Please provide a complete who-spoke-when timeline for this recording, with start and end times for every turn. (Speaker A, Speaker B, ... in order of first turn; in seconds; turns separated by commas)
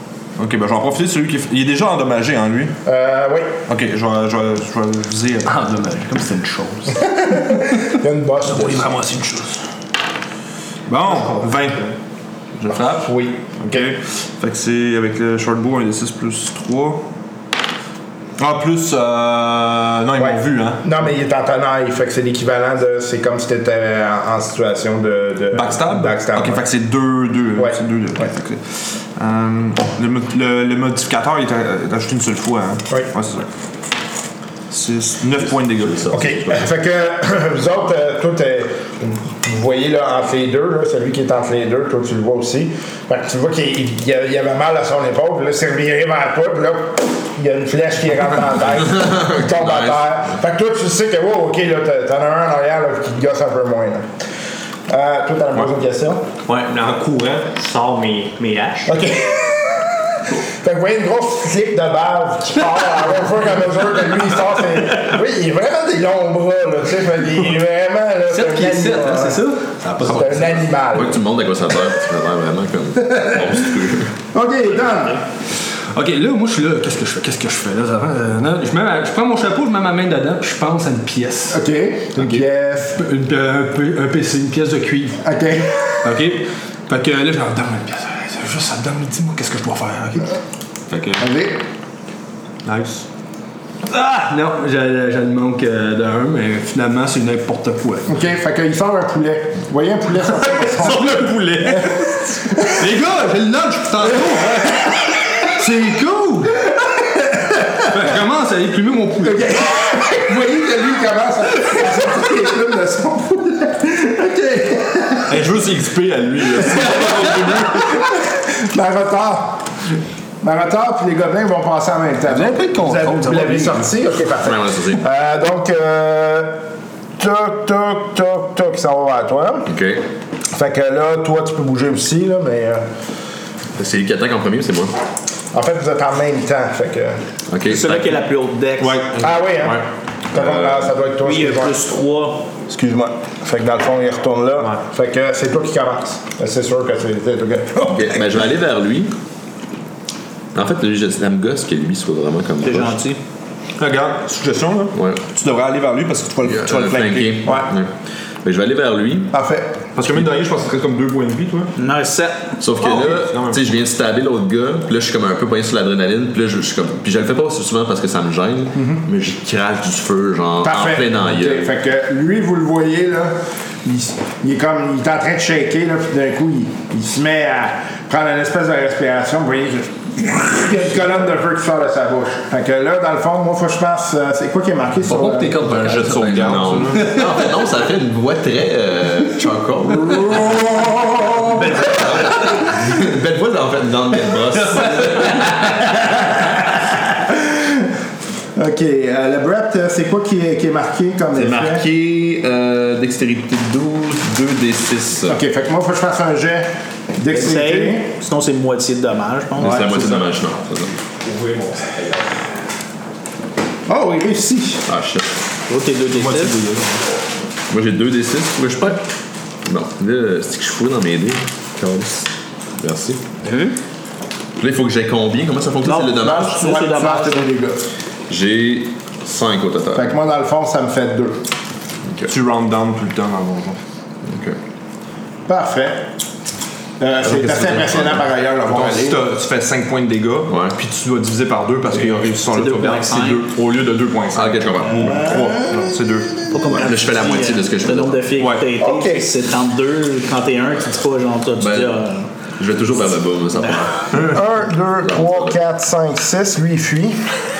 Speaker A: 0.4-2.7, Speaker B: 2.8-3.6, Speaker A: 3.7-5.5, Speaker C: 5.5-7.4, Speaker B: 7.2-8.9, Speaker C: 8.4-9.6, Speaker A: 10.9-11.9, Speaker A: 12.6-17.0, Speaker B: 12.7-13.9, Speaker A: 18.4-20.9, Speaker B: 20.2-26.6, Speaker A: 25.5-33.5, Speaker B: 27.6-28.3, Speaker A: 34.7-36.2, Speaker D: 35.4-36.7, Speaker B: 36.1-54.1, Speaker D: 48.8-50.1, Speaker B: 54.9-56.3, Speaker E: 56.5-59.0, Speaker B: 58.9-69.5, Speaker C: 68.3-70.6, Speaker B: 70.0-71.2, Speaker D: 70.8-74.2, Speaker B: 73.0-73.5, Speaker B: 74.3-75.2, Speaker C: 75.9-81.6, Speaker B: 81.5-83.0, Speaker C: 82.9-85.2, Speaker B: 85.2-86.1, Speaker C: 86.0-90.4, Speaker D: 90.9-91.2, Speaker B: 91.2-91.6, Speaker A: 92.6-93.0, Speaker C: 93.8-98.2, Speaker B: 98.1-102.9, Speaker C: 100.5-104.9, Speaker C: 105.5-106.7, Speaker B: 107.1-107.8, Speaker C: 107.8-109.5, Speaker B: 109.2-115.5, Speaker A: 115.3-118.0, Speaker B: 116.7-119.7, Speaker B: 120.4-126.6, Speaker C: 122.3-123.8, Speaker D: 124.3-125.0, Speaker B: 127.2-129.7, Speaker D: 129.7-130.0, Speaker B: 130.5-132.9, Speaker D: 133.7-135.0, Speaker B: 135.5-137.2, Speaker D: 137.5-138.2, Speaker F: 137.6-139.1, Speaker A: 138.8-139.8, Speaker B: 139.2-141.8, Speaker D: 140.3-140.9, Speaker F: 141.2-142.5, Speaker B: 142.7-148.5, Speaker D: 147.9-149.1, Speaker D: 150.5-153.0, Speaker F: 152.6-153.2, Speaker A: 153.8-157.5, Speaker D: 154.9-155.2, Speaker D: 156.4-157.9, Speaker B: 157.4-157.7, Speaker D: 158.4-159.3, Speaker B: 159.3-159.8, Speaker A: 159.9-161.7, Speaker F: 161.8-162.6, Speaker D: 162.6-171.7, Speaker A: 162.8-163.6, Speaker B: 168.7-169.0, Speaker B: 170.6-185.5, Speaker D: 185.1-190.7, Speaker A: 185.5-187.2, Speaker B: 190.3-192.3, Speaker D: 191.6-196.4, Speaker B: 195.8-197.9, Speaker B: 198.5-201.8, Speaker D: 201.3-205.4, Speaker B: 205.3-208.1, Speaker F: 207.3-209.9, Speaker D: 209.6-211.0, Speaker A: 211.2-212.2, Speaker B: 213.9-214.8, Speaker D: 214.8-215.3, Speaker F: 215.7-216.6, Speaker A: 216.2-216.9, Speaker D: 217.7-219.1, Speaker D: 219.6-223.2, Speaker D: 224.6-226.6, Speaker F: 225.8-227.5, Speaker B: 226.1-227.9, Speaker D: 228.3-230.1, Speaker B: 229.9-231.4, Speaker A: 232.2-233.8, Speaker D: 234.2-234.6, Speaker B: 235.5-236.1, Speaker B: 237.0-239.2, Speaker D: 237.3-238.2, Speaker A: 238.7-246.4, Speaker D: 240.5-240.8, Speaker F: 242.5-243.4, Speaker D: 244.3-245.3, Speaker B: 245.0-245.9, Speaker F: 246.5-252.3, Speaker D: 246.7-248.3, Speaker A: 248.4-248.7, Speaker B: 248.8-249.3, Speaker D: 251.6-252.0, Speaker D: 252.6-254.4, Speaker B: 254.2-257.4, Speaker D: 255.0-255.6